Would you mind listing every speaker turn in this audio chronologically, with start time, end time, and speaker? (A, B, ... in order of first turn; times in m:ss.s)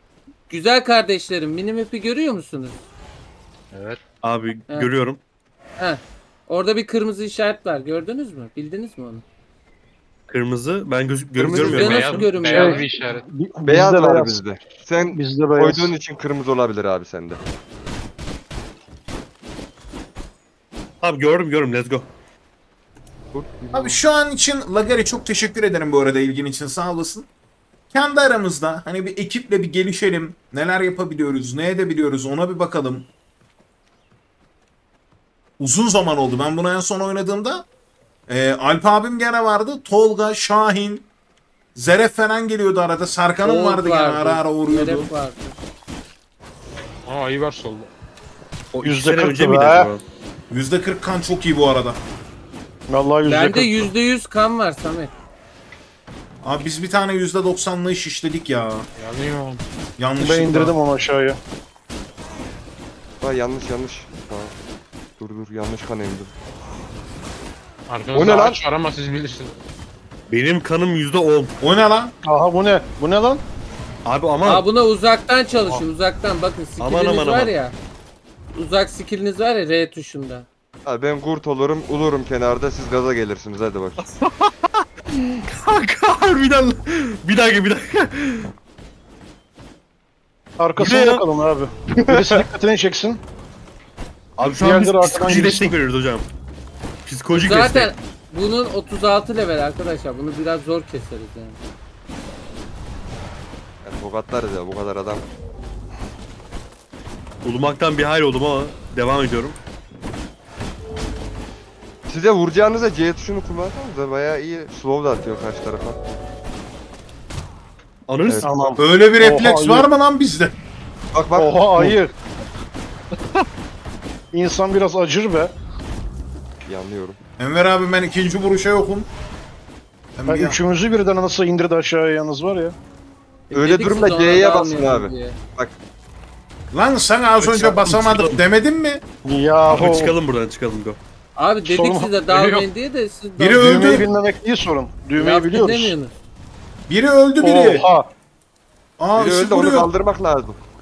0:00.5-0:02.8 A
0:03.7-0:04.0 B
0:04.2-0:05.2 C
0:05.8-0:09.2 A
0:10.3-0:12.3 C
0:11.4-0:11.9 D
0:11.5-0:13.3 B
0:11.5-0:13.0 A
0:12.5-0:14.4 E
0:13.7-0:17.4 D
0:15.1-0:15.9 E
0:21.0-0:22.1 C
0:23.3-0:24.0 D
0:23.7-0:27.3 F
0:27.9-0:33.1 F
0:35.6-0:37.7 F
0:38.3-0:41.1 F
0:41.8-0:45.1 F
0:43.4-0:45.6 A
0:47.1-0:47.9 B
0:48.7-0:50.0 C
0:48.8-0:49.9 E
0:50.5-0:52.0 F
0:52.9-0:53.9 E
0:53.3-0:55.1 A
0:56.4-0:58.9 F
0:59.0-0:59.6 B
1:00.0-1:00.8 F
1:00.2-1:01.4 E
1:03.2-1:04.6 D
1:05.2-1:06.3 D
1:07.9-1:09.5 B
1:08.1-1:08.6 D
1:10.3-1:11.6 C
1:11.6-1:12.1 F
1:12.2-1:13.4 E
1:14.0-1:14.7 C
1:14.4-1:17.8 A
1:16.8-1:17.5 C
1:18.5-1:20.5 A
1:20.9-1:24.0 D
1:24.0-1:28.5 C
1:30.6-1:33.2 E
1:30.8-1:31.2 C
1:34.4-1:36.2 C
1:34.6-1:35.8 E
1:37.1-1:37.9 C
1:37.3-1:41.6 A
1:43.8-1:45.2 D
1:47.4-1:49.6 C
1:52.1-1:56.0 D
1:58.1-1:58.5 C
1:58.2-1:58.6 D
1:58.4-1:59.9 E
1:58.8-2:00.6 F
2:01.1-2:01.5 D
2:01.3-2:02.1 E
2:04.3-2:05.5 E
2:06.6-2:07.2 D
2:07.4-2:09.1 F
2:10.2-2:10.6 F
2:10.3-2:12.8 E
2:13.5-2:15.4 A
2:13.5-2:15.8 D
2:16.7-2:19.0 F
2:17.4-2:18.4 C
2:19.2-2:20.2 E
2:19.7-2:21.0 C
2:21.4-2:23.8 A
2:21.6-2:22.1 E
2:22.3-2:22.7 B
2:23.4-2:24.1 F
2:23.5-2:25.9 E
2:25.2-2:26.2 A
2:26.9-2:27.9 F
2:27.4-2:28.1 E
2:29.0-2:29.9 F
2:29.2-2:30.6 D